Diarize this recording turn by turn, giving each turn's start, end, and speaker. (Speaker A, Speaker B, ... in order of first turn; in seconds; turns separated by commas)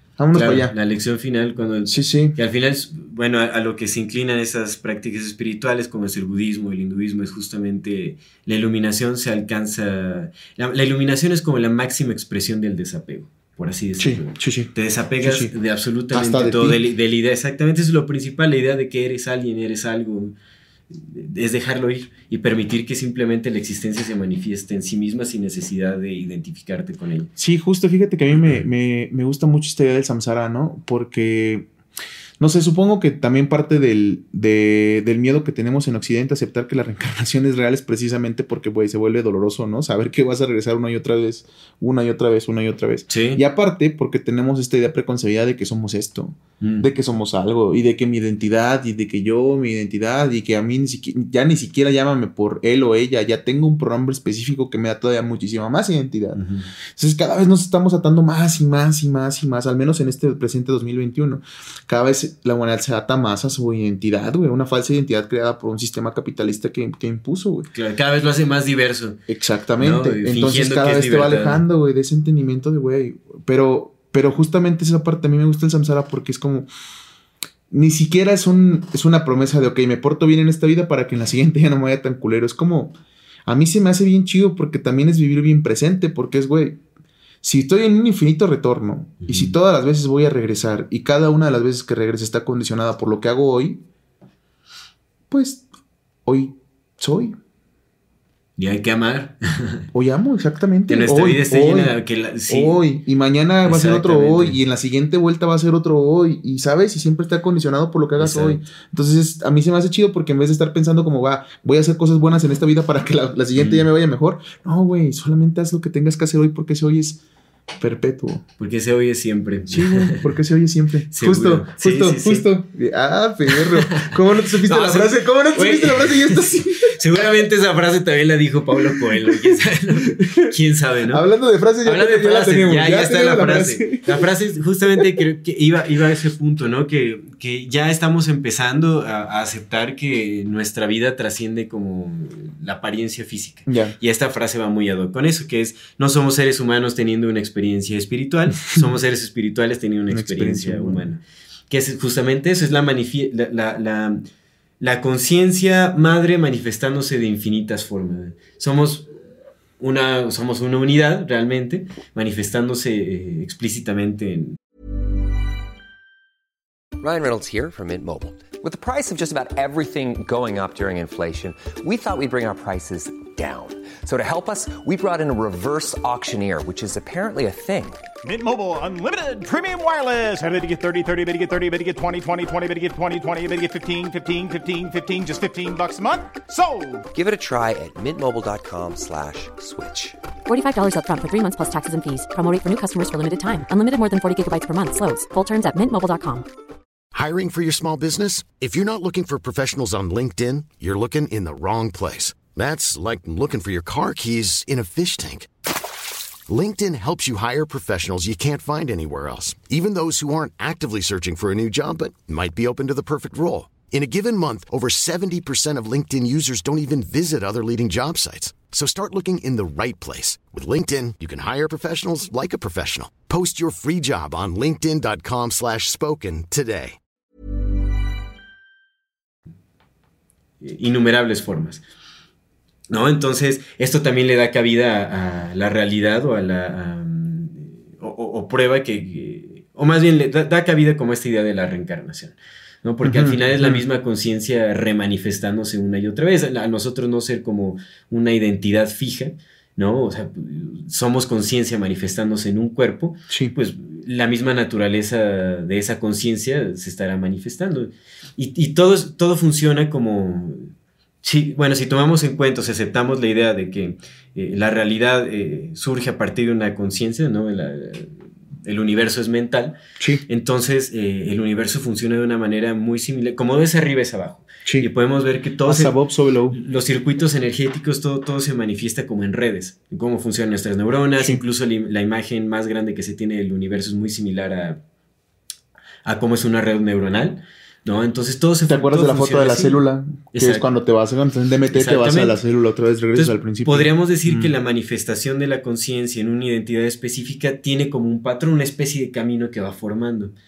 Speaker A: 0.2-0.7, Speaker B: 0.3-20.3, Speaker A: 1.9-2.4, Speaker A: 14.0-15.5, Speaker A: 16.1-16.8, Speaker B: 20.9-27.3, Speaker A: 27.4-31.7, Speaker B: 28.3-28.6, Speaker A: 32.4-56.4, Speaker B: 43.1-43.4, Speaker B: 46.6-46.9, Speaker B: 56.3-56.7, Speaker A: 56.9-67.7, Speaker B: 67.7-69.2, Speaker A: 69.3-76.7, Speaker B: 69.8-71.6, Speaker A: 77.7-82.9, Speaker A: 83.5-86.8, Speaker A: 87.4-93.8, Speaker B: 89.2-89.5, Speaker A: 95.3-95.6, Speaker A: 96.2-97.4, Speaker B: 98.6-99.8, Speaker A: 99.9-102.0, Speaker B: 100.9-102.8, Speaker A: 102.5-117.2, Speaker B: 103.6-104.6, Speaker B: 108.2-108.6, Speaker B: 113.5-113.9, Speaker A: 117.8-118.4, Speaker B: 118.6-120.3, Speaker A: 119.7-126.9, Speaker B: 121.1-122.5, Speaker B: 123.5-131.2, Speaker A: 128.7-129.6, Speaker A: 130.2-130.5, Speaker A: 131.1-134.1, Speaker B: 131.8-154.2, Speaker A: 143.7-144.0, Speaker A: 150.1-151.0, Speaker B: 154.8-159.1, Speaker B: 159.8-164.6, Speaker C: 167.0-178.1, Speaker D: 178.2-187.1, Speaker C: 187.1-190.2, Speaker E: 190.4-196.4, Speaker F: 197.1-205.5, Speaker F: 206.5-227.0, Speaker B: 230.6-231.8, Speaker B: 232.9-260.7, Speaker A: 243.0-243.8, Speaker A: 253.3-253.6, Speaker B: 261.2-269.8, Speaker B: 270.3-275.9, Speaker A: 275.6-276.6, Speaker B: 276.5-284.8, Speaker A: 281.2-281.4, Speaker B: 286.0-289.8, Speaker A: 288.6-294.5, Speaker B: 290.3-290.6, Speaker B: 291.7-292.4, Speaker B: 293.1-300.3